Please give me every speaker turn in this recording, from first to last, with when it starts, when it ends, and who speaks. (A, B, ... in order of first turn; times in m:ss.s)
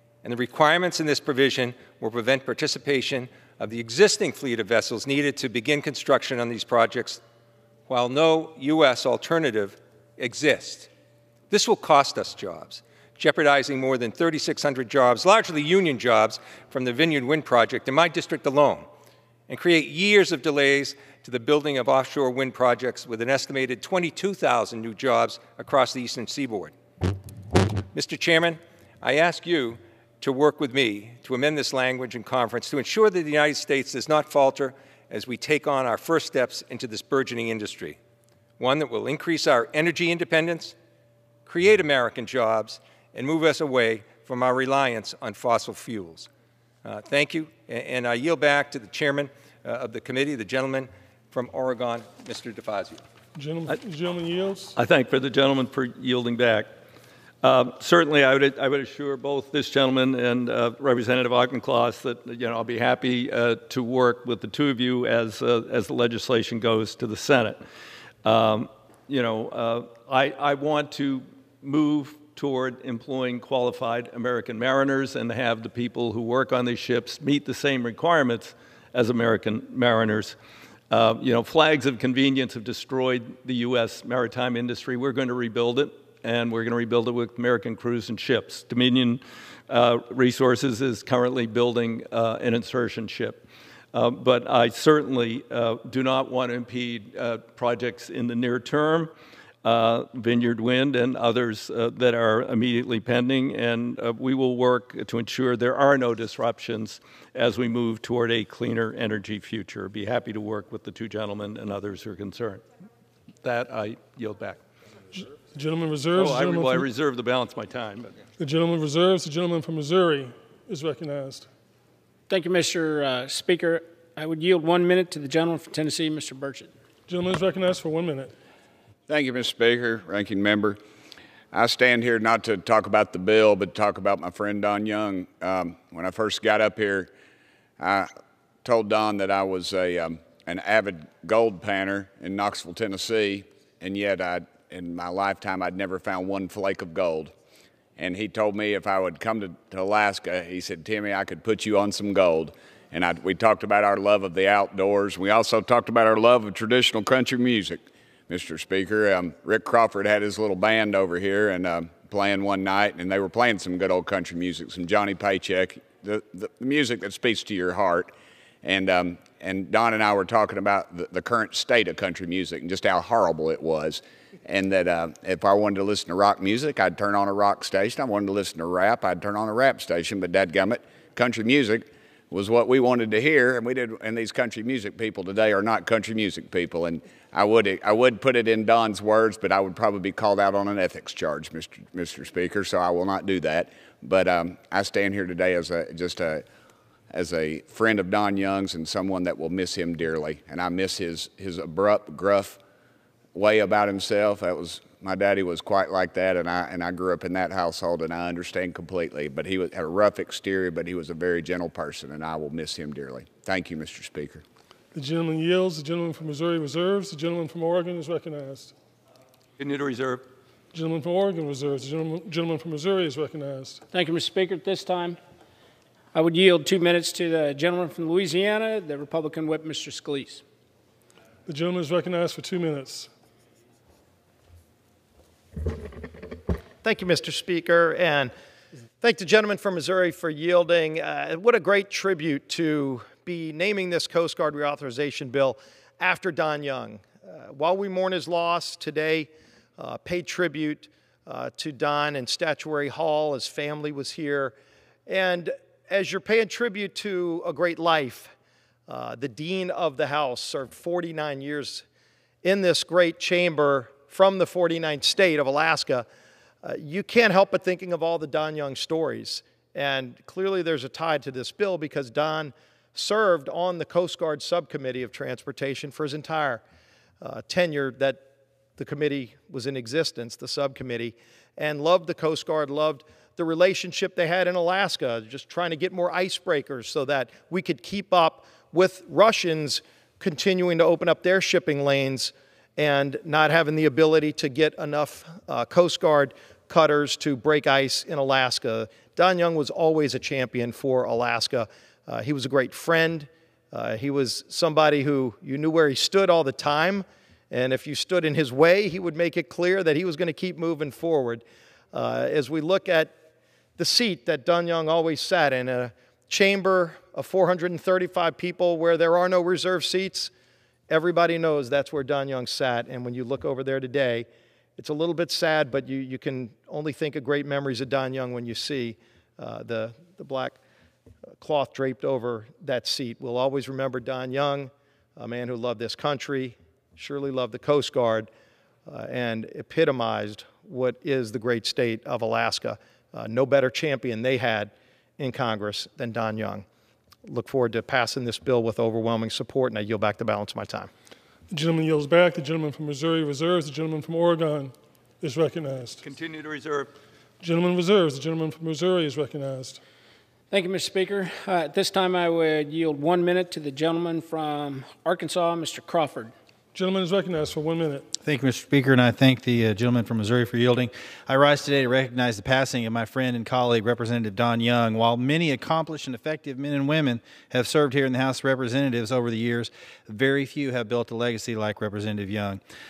0:00.2-0:07.2 A
0:07.9-0:10.9 A
0:11.5-0:18.9 A
0:19.5-0:26.7 A
0:27.9-0:38.0 A
0:38.6-0:40.7 A
0:41.4-0:46.3 A
0:46.8-0:53.0 A
0:53.3-0:54.8 B
0:54.7-0:56.7 C
0:57.4-1:07.6 C
1:08.2-1:20.3 C
1:20.9-1:39.1 C
1:39.6-1:52.6 C
1:53.4-1:54.6 C
1:55.1-1:56.9 B
1:56.1-1:58.2 C
1:58.4-2:01.5 B
2:02.3-2:06.7 D
2:07.1-2:08.3 B
2:09.1-2:10.8 E
2:11.5-2:17.1 E
2:17.8-2:18.1 E
2:18.6-2:27.3 E
2:28.0-3:16.4 E
3:17.1-3:22.6 E
3:23.3-3:34.4 E
3:34.9-3:38.7 B
3:39.6-3:40.2 C
3:40.7-3:43.8 B
3:43.9-3:45.2 D
3:46.1-3:50.4 D
3:51.5-3:53.1 B
3:56.8-3:58.3 F
3:59.0-4:14.5 F
4:15.1-4:18.3 F
4:18.9-4:21.8 F
4:22.4-4:26.1 F
4:26.6-4:36.6 F
4:37.2-4:38.2 F
4:38.8-5:13.1 F
5:13.8-5:20.3 F
5:20.9-5:30.6 F
5:31.4-5:38.3 F
5:38.9-5:46.6 F
5:47.2-5:50.9 F
5:51.5-5:56.0 B
5:56.0-5:56.9 C
5:57.4-5:59.8 B
6:00.5-6:06.3 D
6:06.7-6:08.1 B
6:08.2-6:22.6 G